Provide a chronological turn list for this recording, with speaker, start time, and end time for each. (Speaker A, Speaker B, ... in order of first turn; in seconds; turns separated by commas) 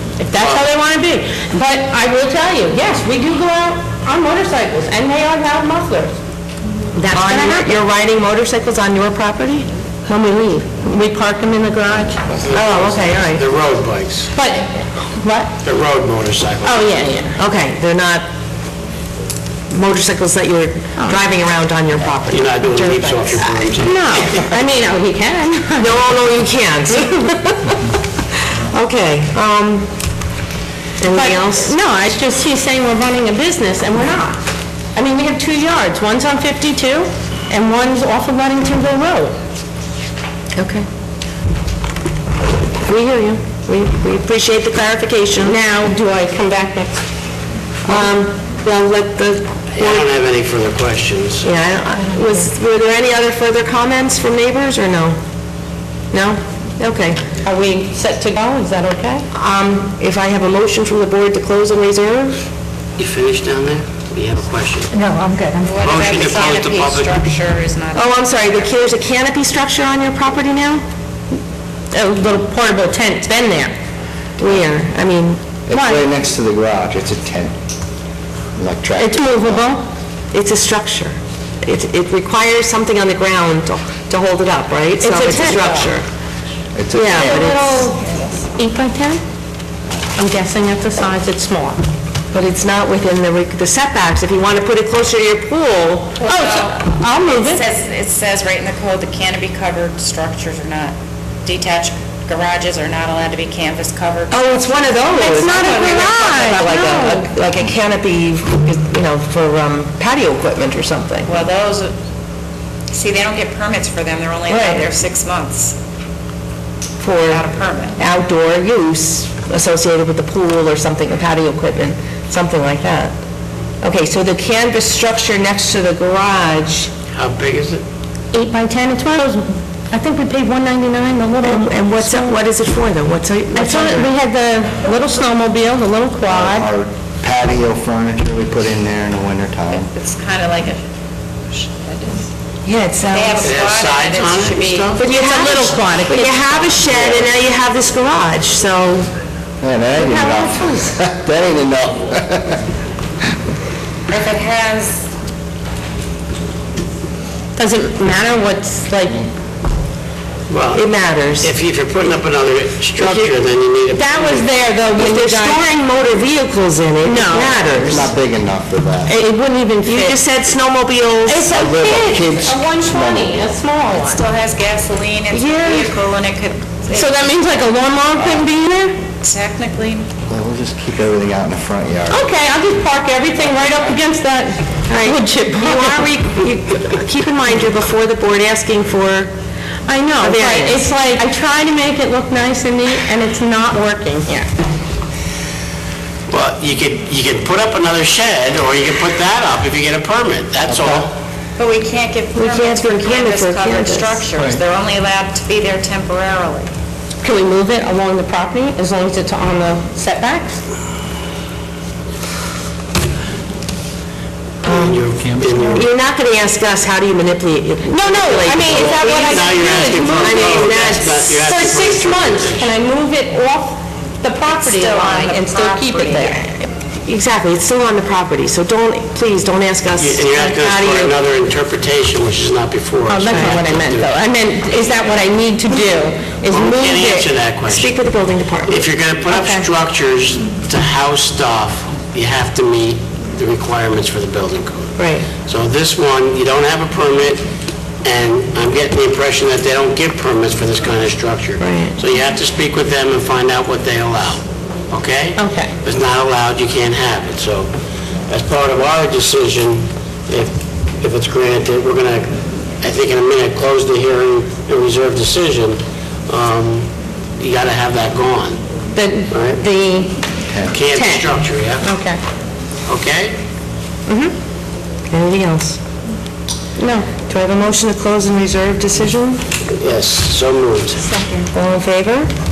Speaker A: 0.2-6.2, Speaker B: 0.4-0.7, Speaker A: 7.0-7.9, Speaker C: 7.1-9.7, Speaker A: 10.1-12.2, Speaker B: 12.3-14.3, Speaker C: 12.5-13.4, Speaker A: 14.3-15.5, Speaker B: 15.6-16.9, Speaker A: 16.6-17.4, Speaker C: 17.4-18.3, Speaker C: 19.7-23.5, Speaker A: 21.0-21.2, Speaker B: 22.3-24.6, Speaker A: 23.7-27.3, Speaker C: 25.8-27.7, Speaker C: 28.7-29.9, Speaker C: 31.0-31.8, Speaker A: 31.0-34.4, Speaker A: 35.0-39.4, Speaker C: 40.5-40.9, Speaker C: 42.8-45.6, Speaker A: 45.4-47.0, Speaker C: 47.9-50.1, Speaker B: 49.7-51.5, Speaker C: 51.4-55.2, Speaker C: 56.1-57.2, Speaker A: 57.4-59.2, Speaker C: 59.3-62.5, Speaker B: 63.0-64.9, Speaker D: 65.4-68.7, Speaker B: 65.8-67.1, Speaker C: 68.0-70.8, Speaker A: 71.9-73.7, Speaker C: 74.4-75.4, Speaker E: 75.7-77.5, Speaker A: 75.7-76.1, Speaker E: 78.6-79.7, Speaker A: 79.0-79.9, Speaker C: 80.3-86.0, Speaker A: 85.0-86.0, Speaker E: 86.8-87.9, Speaker A: 86.9-89.2, Speaker C: 87.0-87.8, Speaker A: 90.2-91.8, Speaker C: 92.3-96.2, Speaker D: 96.2-106.1, Speaker A: 96.2-97.6, Speaker C: 104.3-111.3, Speaker A: 105.1-107.3, Speaker D: 111.3-112.0, Speaker D: 112.9-115.8, Speaker C: 114.5-114.9, Speaker C: 117.0-117.4, Speaker D: 117.2-118.0, Speaker C: 118.0-123.2, Speaker C: 123.8-126.9, Speaker B: 127.1-127.8, Speaker A: 128.3-132.4, Speaker C: 131.4-134.1, Speaker A: 133.5-136.7, Speaker E: 136.3-139.9, Speaker D: 139.7-140.8, Speaker D: 141.5-142.3, Speaker C: 142.7-143.6, Speaker D: 143.1-145.0, Speaker B: 143.4-145.0, Speaker C: 144.9-149.1, Speaker A: 145.0-146.8, Speaker E: 146.9-147.3, Speaker E: 149.6-152.6, Speaker A: 149.9-151.0, Speaker D: 154.1-155.1, Speaker A: 157.6-159.2, Speaker B: 160.5-164.5, Speaker C: 160.7-161.5, Speaker C: 163.0-163.3, Speaker A: 163.9-165.7, Speaker C: 165.0-168.1, Speaker A: 167.0-167.7, Speaker E: 167.7-169.2, Speaker A: 169.1-170.2, Speaker C: 169.8-171.5, Speaker A: 171.3-174.2, Speaker E: 171.5-173.4, Speaker D: 173.9-177.3, Speaker C: 175.3-176.0, Speaker A: 176.9-179.0, Speaker D: 179.2-180.1, Speaker E: 180.3-182.3, Speaker A: 182.1-186.2, Speaker C: 184.9-189.3, Speaker A: 189.9-194.5, Speaker C: 190.2-190.9, Speaker B: 196.3-201.1, Speaker D: 201.6-206.7, Speaker C: 202.3-204.2, Speaker A: 207.2-210.6, Speaker B: 214.6-215.9, Speaker C: 214.7-215.0, Speaker C: 215.8-221.4, Speaker A: 217.8-226.5, Speaker B: 218.7-222.7, Speaker D: 224.5-226.5, Speaker C: 227.1-231.2, Speaker B: 230.0-234.2, Speaker A: 233.1-237.3, Speaker B: 236.5-238.0, Speaker C: 237.7-238.9, Speaker B: 238.7-247.4, Speaker A: 239.3-239.7, Speaker C: 245.0-245.3, Speaker B: 248.0-257.7, Speaker C: 251.6-252.0, Speaker A: 255.4-255.7, Speaker B: 258.3-268.6, Speaker A: 268.9-270.2, Speaker B: 269.3-269.6, Speaker E: 270.4-270.8, Speaker B: 270.7-271.9, Speaker A: 270.9-272.2, Speaker B: 272.9-273.4, Speaker A: 274.1-274.3, Speaker C: 275.1-275.8, Speaker A: 276.8-277.1, Speaker C: 277.3-279.4, Speaker B: 279.7-281.0, Speaker A: 281.1-281.5, Speaker C: 281.5-282.3